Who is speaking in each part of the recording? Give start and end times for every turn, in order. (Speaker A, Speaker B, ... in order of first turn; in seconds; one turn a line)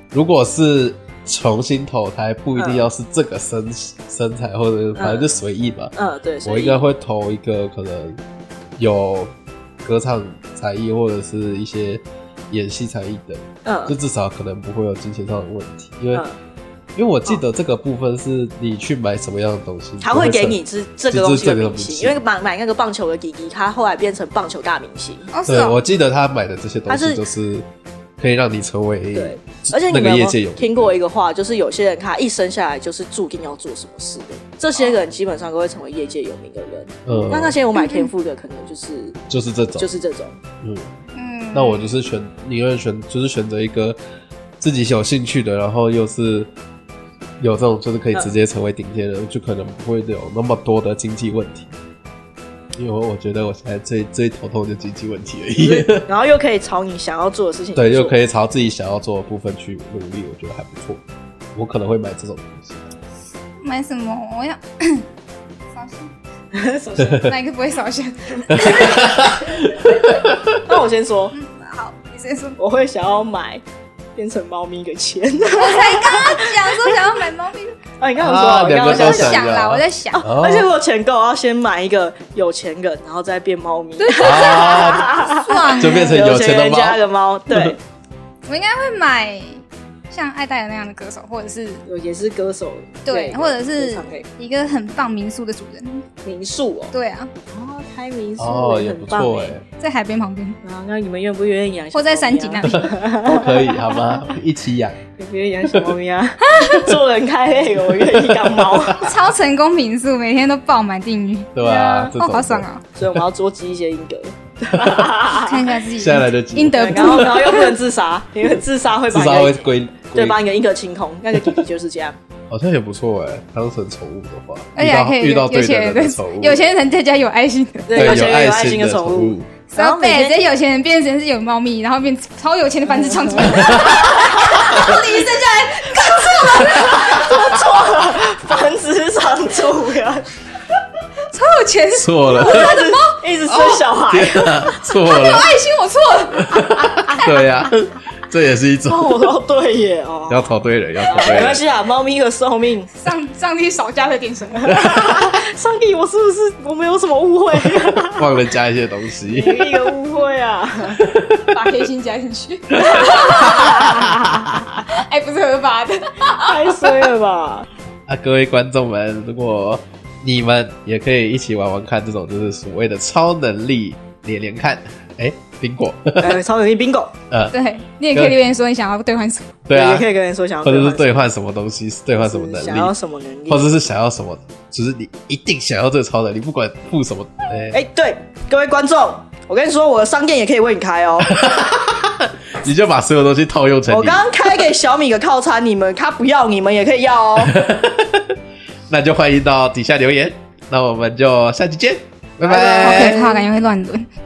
Speaker A: 0.1-5.9
Speaker B: 2.5-2.8
Speaker B: 5.0-5.3
Speaker B: 5.9-6.8
Speaker A: 6.4-8.2
Speaker A: 8.8-9.3
Speaker A: 9.8-16.2
Speaker B: 13.7-13.9
Speaker B: 16.1-16.4
Speaker A: 16.9-22.2
Speaker B: 20.0-25.3
Speaker C: 25.3-25.8
Speaker A: 25.5-27.7
Speaker B: 26.9-27.2
Speaker A: 28.2-30.9
Speaker B: 29.1-39.2
Speaker A: 37.1-37.6
Speaker C: 37.7-38.1
Speaker A: 39.3-39.9
Speaker B: 39.8-40.4
Speaker A: 40.6-40.9
Speaker C: 41.2-41.9
Speaker A: 41.5-44.0
Speaker A: 44.6-46.5
Speaker A: 47.4-51.7
Speaker A: 52.8-56.1
Speaker B: 55.6-58.2
Speaker A: 57.8-61.0
Speaker A: 61.5-62.9
Speaker C: 63.6-65.1
Speaker C: 65.7-66.1
Speaker B: 66.5-67.2
Speaker C: 67.0-69.0
Speaker A: 67.1-67.3
Speaker A: 68.5-70.6
Speaker B: 68.6-69.0
Speaker B: 70.6-71.3
Speaker C: 71.3-72.6
Speaker B: 72.6-73.6
Speaker B: 74.2-77.0
Speaker C: 75.6-77.8
Speaker B: 78.0-79.5
Speaker A: 78.2-80.7
Speaker C: 78.8-80.2
Speaker B: 80.2-87.8
Speaker C: 84.0-86.2
Speaker A: 84.2-87.7
Speaker C: 88.5-91.8
Speaker B: 91.8-94.3
Speaker C: 93.1-96.1
Speaker B: 96.2-96.9
Speaker C: 96.9-97.3
Speaker B: 97.5-99.5
Speaker A: 98.4-99.6
Speaker C: 99.8-100.6
Speaker B: 100.6-104.1
Speaker C: 101.9-102.9
Speaker A: 102.7-105.0
Speaker B: 105.2-109.1
Speaker C: 106.5-106.9
Speaker A: 108.3-109.2
Speaker C: 109.0-112.8
Speaker A: 111.5-112.7
Speaker B: 113.0-115.7
Speaker C: 115.3-117.8
Speaker A: 116.0-117.4
Speaker B: 116.7-122.2
Speaker A: 119.1-120.4
Speaker A: 122.5-126.7
Speaker C: 124.8-128.2
Speaker B: 127.9-130.4
Speaker A: 128.0-129.5
Speaker C: 129.7-137.3
Speaker B: 133.0-135.0
Speaker A: 133.6-135.0
Speaker B: 136.0-140.3
Speaker A: 136.8-137.5
Speaker C: 141.3-143.8
Speaker A: 141.9-142.8
Speaker B: 142.3-144.6
Speaker A: 144.1-145.6
Speaker C: 144.9-147.2
Speaker A: 146.4-149.2
Speaker B: 148.9-150.5
Speaker A: 150.3-151.6
Speaker B: 151.0-152.9
Speaker C: 152.9-155.3
Speaker B: 154.6-158.3
Speaker A: 158.1-159.9
Speaker B: 159.3-161.1
Speaker A: 161.0-161.6
Speaker C: 161.5-164.3
Speaker A: 162.8-164.8
Speaker B: 162.9-164.2
Speaker C: 164.9-167.1
Speaker B: 166.3-167.7
Speaker A: 168.1-176.4
Speaker B: 176.2-177.1
Speaker C: 177.5-179.5
Speaker A: 179.7-180.1
Speaker B: 179.7-181.3
Speaker A: 180.6-182.9
Speaker B: 182.2-183.7
Speaker A: 183.5-187.8
Speaker B: 187.7-191.4
Speaker A: 191.2-194.3
Speaker B: 193.9-197.6
Speaker A: 197.4-203.3
Speaker B: 202.4-203.5
Speaker C: 202.8-204.1